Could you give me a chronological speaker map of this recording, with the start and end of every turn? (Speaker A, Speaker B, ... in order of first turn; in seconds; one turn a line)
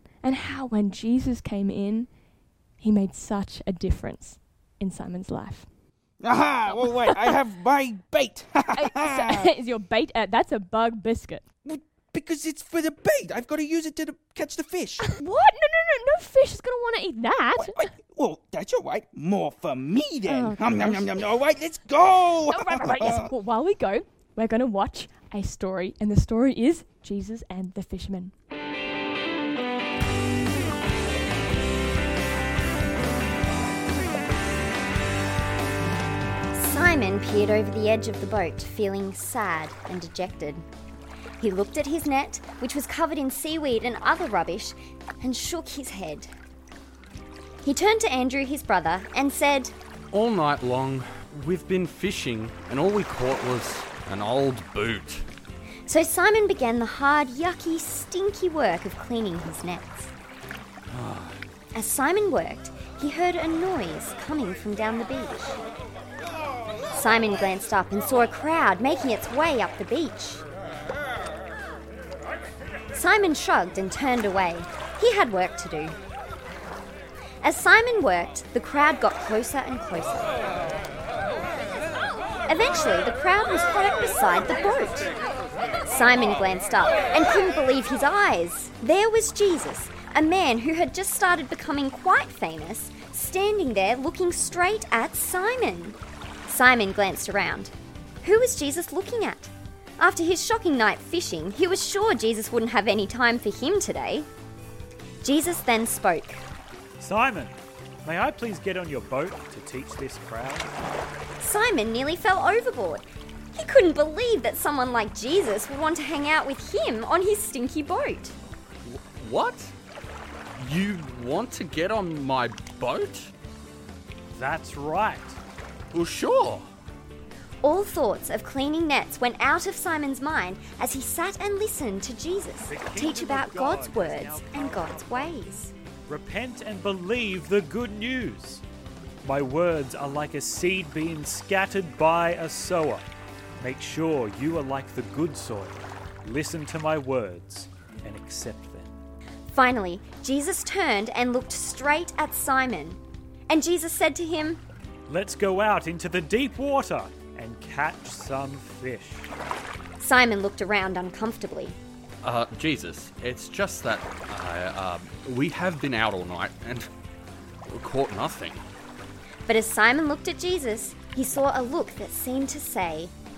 Speaker A: 0.2-2.2
Speaker A: 2.7-5.7
Speaker B: 6.2-9.5
Speaker A: 6.8-7.2
Speaker A: 8.7-11.5
Speaker B: 11.6-15.1
Speaker A: 15.1-17.8
Speaker B: 17.6-23.3
Speaker A: 20.2-21.3
Speaker A: 22.5-28.3
Speaker C: 36.5-40.6
Speaker C: 41.4-46.3
Speaker C: 47.6-49.7
Speaker D: 50.1-55.2
Speaker C: 55.9-60.1
Speaker D: 60.9-61.4
Speaker C: 61.7-65.6
Speaker C: 66.9-70.4
Speaker C: 72.9-76.0
Speaker C: 77.4-80.3
Speaker C: 82.5-85.1
Speaker C: 85.8-104.3
Speaker C: 105.2-106.4
Speaker E: 107.0-110.7
Speaker C: 111.4-118.3
Speaker D: 118.8-119.7
Speaker D: 120.5-123.3
Speaker E: 124.3-125.4
Speaker D: 125.9-126.7
Speaker C: 127.6-135.7
Speaker E: 132.6-135.5
Speaker E: 136.1-138.6
Speaker E: 139.2-143.1
Speaker E: 143.6-148.9
Speaker C: 149.5-154.6
Speaker E: 155.1-159.3
Speaker C: 160.0-161.8
Speaker D: 162.2-166.9
Speaker D: 167.7-168.6
Speaker C: 169.4-173.1